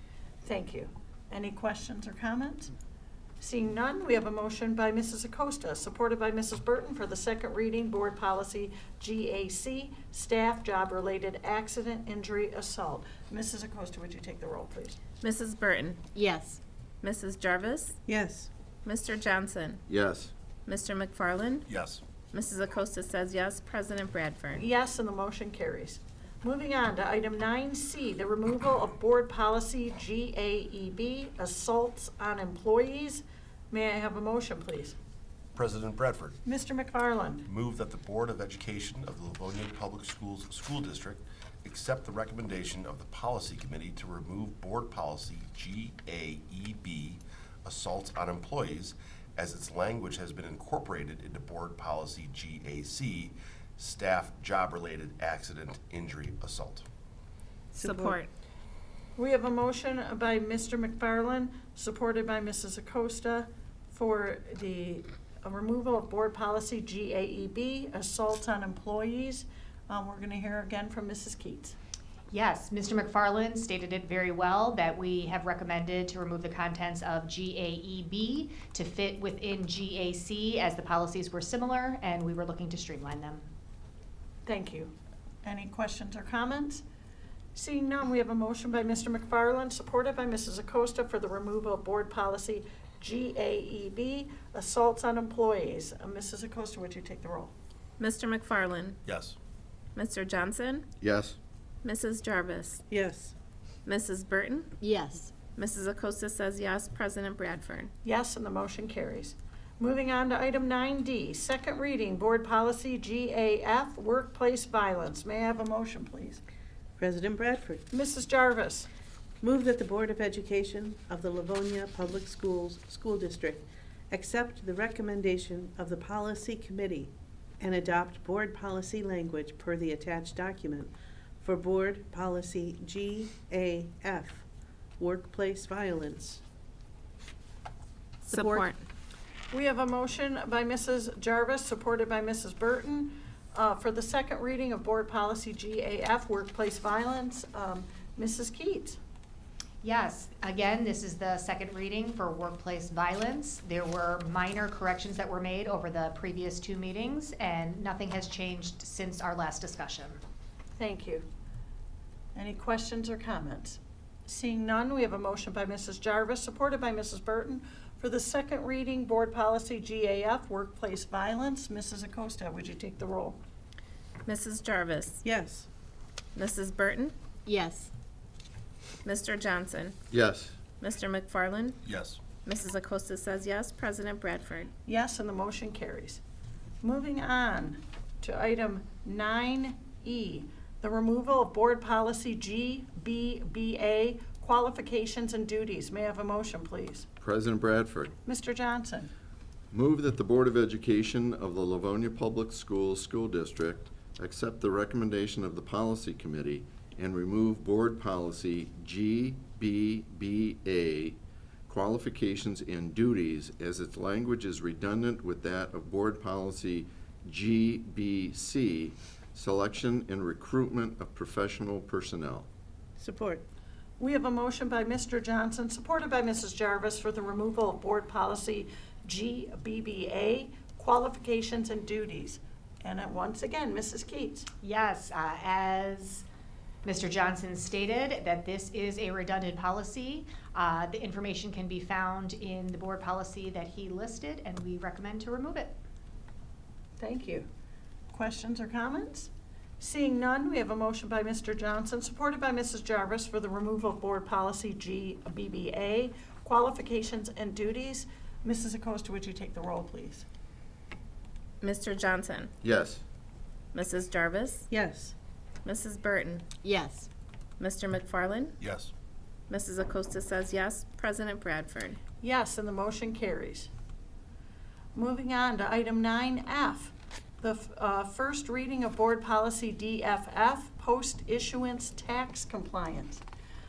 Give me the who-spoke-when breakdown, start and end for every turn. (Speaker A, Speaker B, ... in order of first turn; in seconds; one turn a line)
Speaker A: 0.4-2.7
Speaker A: 3.4-15.0
Speaker B: 15.2-16.0
Speaker C: 16.1-16.6
Speaker B: 17.0-18.0
Speaker D: 18.1-18.5
Speaker B: 18.8-19.8
Speaker E: 19.9-20.3
Speaker B: 20.7-21.7
Speaker F: 21.7-22.0
Speaker B: 22.3-24.7
Speaker A: 24.6-35.0
Speaker F: 35.5-36.4
Speaker A: 36.5-37.5
Speaker F: 37.5-56.9
Speaker D: 57.7-58.2
Speaker B: 57.8-58.3
Speaker A: 59.2-71.8
Speaker G: 72.3-83.5
Speaker A: 84.4-86.8
Speaker A: 87.5-97.5
Speaker B: 98.0-99.0
Speaker F: 99.1-99.3
Speaker B: 99.9-100.9
Speaker E: 101.0-101.4
Speaker B: 101.8-102.8
Speaker D: 102.9-103.3
Speaker B: 103.8-104.7
Speaker C: 104.8-105.3
Speaker B: 105.5-107.9
Speaker A: 108.0-116.4
Speaker D: 117.0-117.8
Speaker A: 117.9-118.9
Speaker D: 119.4-134.4
Speaker D: 135.0-136.4
Speaker B: 138.3-138.8
Speaker A: 138.3-138.6
Speaker A: 139.5-149.0
Speaker G: 149.8-160.2
Speaker A: 160.8-161.3
Speaker A: 162.3-173.4
Speaker B: 174.2-175.2
Speaker D: 175.2-175.7
Speaker B: 176.3-177.1
Speaker C: 177.5-177.9
Speaker B: 179.0-180.0
Speaker E: 180.1-180.6
Speaker B: 180.8-181.8
Speaker F: 181.8-182.2
Speaker B: 182.4-184.7
Speaker A: 184.8-186.2
Speaker A: 186.8-197.1
Speaker E: 197.2-198.2
Speaker A: 198.2-199.1
Speaker E: 199.7-222.5
Speaker D: 223.0-223.4
Speaker A: 224.0-234.5
Speaker G: 234.6-236.2
Speaker G: 236.8-245.8
Speaker A: 247.0-247.5
Speaker A: 248.1-260.2
Speaker B: 261.6-262.5
Speaker E: 262.6-263.0
Speaker B: 263.7-264.7
Speaker D: 264.7-265.1
Speaker B: 265.6-266.4
Speaker C: 266.6-267.1
Speaker B: 267.6-268.6
Speaker F: 268.6-268.9
Speaker B: 269.5-272.0
Speaker A: 272.2-273.7
Speaker A: 274.9-283.2